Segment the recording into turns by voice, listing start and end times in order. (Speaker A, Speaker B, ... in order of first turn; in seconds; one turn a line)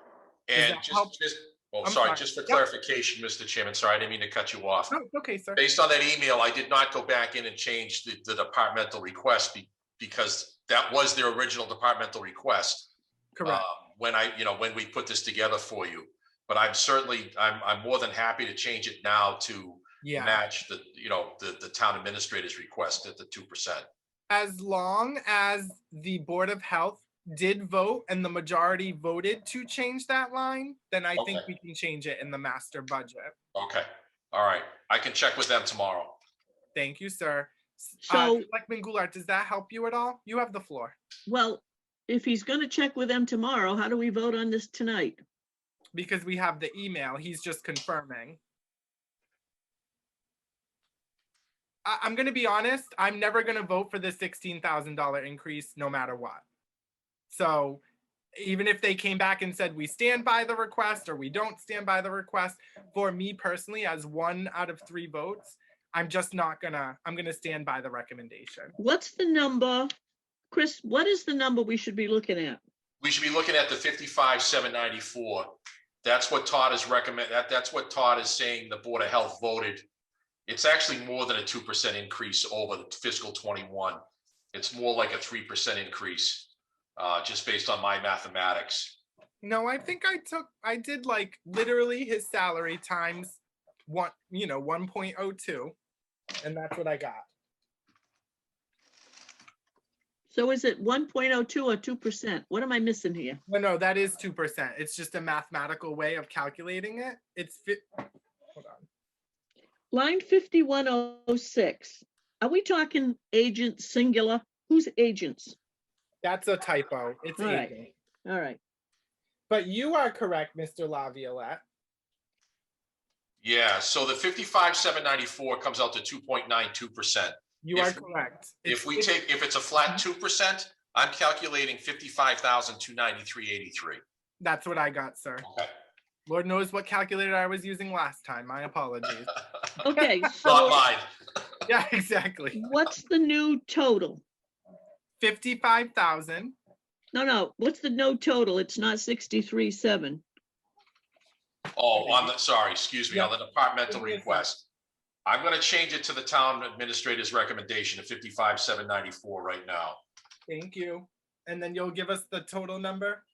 Speaker A: 0.5-5.0
Speaker B: 0.6-1.2
Speaker B: 1.8-2.6
Speaker B: 4.9-5.6
Speaker A: 5.6-12.9
Speaker B: 13.3-13.7
Speaker A: 13.5-23.9
Speaker B: 20.0-20.4
Speaker B: 24.3-33.4
Speaker A: 31.2-31.5
Speaker A: 33.5-36.2
Speaker B: 36.8-41.0
Speaker C: 38.0-38.5
Speaker C: 41.3-45.2
Speaker B: 45.9-48.4
Speaker B: 51.9-56.4
Speaker B: 57.3-57.8
Speaker B: 58.4-68.8
Speaker C: 68.8-69.9
Speaker C: 70.5-72.6
Speaker A: 73.0-79.8
Speaker A: 80.5-84.0
Speaker A: 84.5-89.0
Speaker B: 89.4-95.8
Speaker B: 96.4-97.2
Speaker C: 100.3-103.4
Speaker B: 103.5-108.9
Speaker C: 109.9-115.6
Speaker B: 116.2-117.9
Speaker C: 117.4-117.7
Speaker C: 118.2-118.6
Speaker B: 119.5-121.6
Speaker A: 123.4-128.0
Speaker B: 127.6-129.2
Speaker A: 128.7-134.0
Speaker B: 134.4-135.5
Speaker A: 135.4-135.7
Speaker B: 136.3-139.3
Speaker C: 139.8-140.8
Speaker B: 139.9-140.6
Speaker A: 140.4-141.1
Speaker B: 141.7-142.6
Speaker C: 142.6-144.2
Speaker B: 145.2-146.6
Speaker C: 147.1-150.2
Speaker A: 151.8-154.6
Speaker B: 152.0-152.3
Speaker B: 153.1-153.3
Speaker B: 153.9-154.5
Speaker A: 155.2-160.0
Speaker B: 160.5-163.2